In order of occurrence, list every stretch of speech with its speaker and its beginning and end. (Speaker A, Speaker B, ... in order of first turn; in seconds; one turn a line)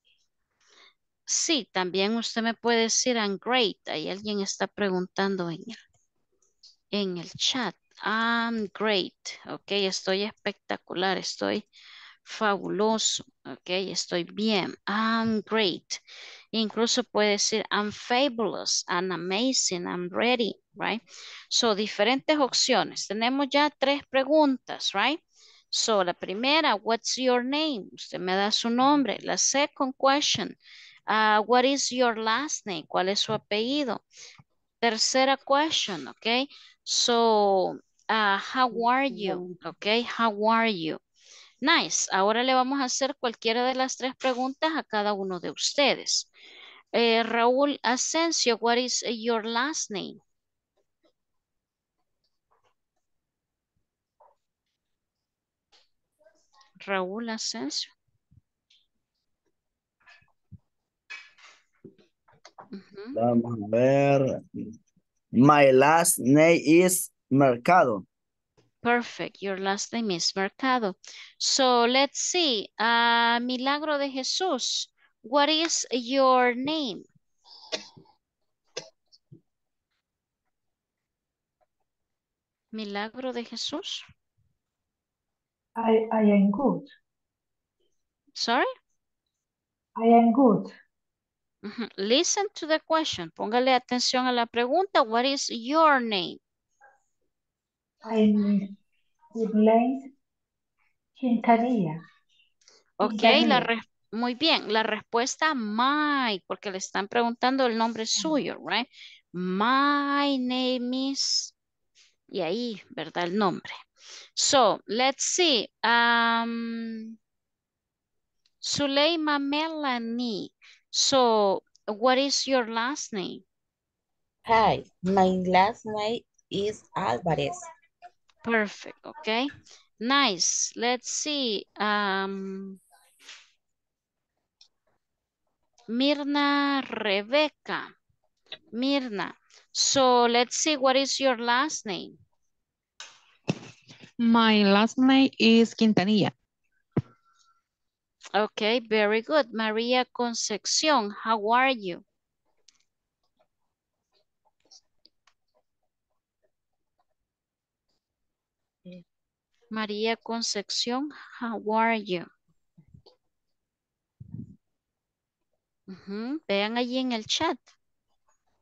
Speaker A: 1.3-5.8
Speaker A: 6.9-11.6
Speaker A: 12.2-16.0
Speaker A: 16.5-25.2
Speaker A: 25.7-30.6
Speaker A: 31.1-34.0
Speaker A: 34.8-41.0
Speaker A: 41.6-46.3
Speaker A: 46.9-50.2
Speaker A: 56.8-57.9
Speaker A: 62.7-63.1
Speaker B: 63.1-64.4
Speaker B: 65.3-68.0
Speaker A: 68.8-77.0
Speaker A: 82.7-84.0
Speaker C: 85.8-86.9
Speaker A: 88.4-88.7
Speaker C: 90.0-90.7
Speaker A: 91.6-96.4
Speaker C: 98.0-98.7
Speaker C: 99.3-100.1
Speaker C: 101.2-102.0
Speaker A: 103.0-111.5
Speaker C: 103.0-103.7
Speaker A: 112.3-113.7
Speaker A: 114.3-117.1
Speaker A: 118.6-123.4
Speaker D: 124.5-127.6
Speaker A: 128.4-132.8
Speaker A: 135.9-137.9
Speaker A: 138.7-142.2
Speaker E: 144.2-146.3
Speaker A: 148.3-152.0
Speaker A: 159.7-162.3
Speaker A: 165.9-167.6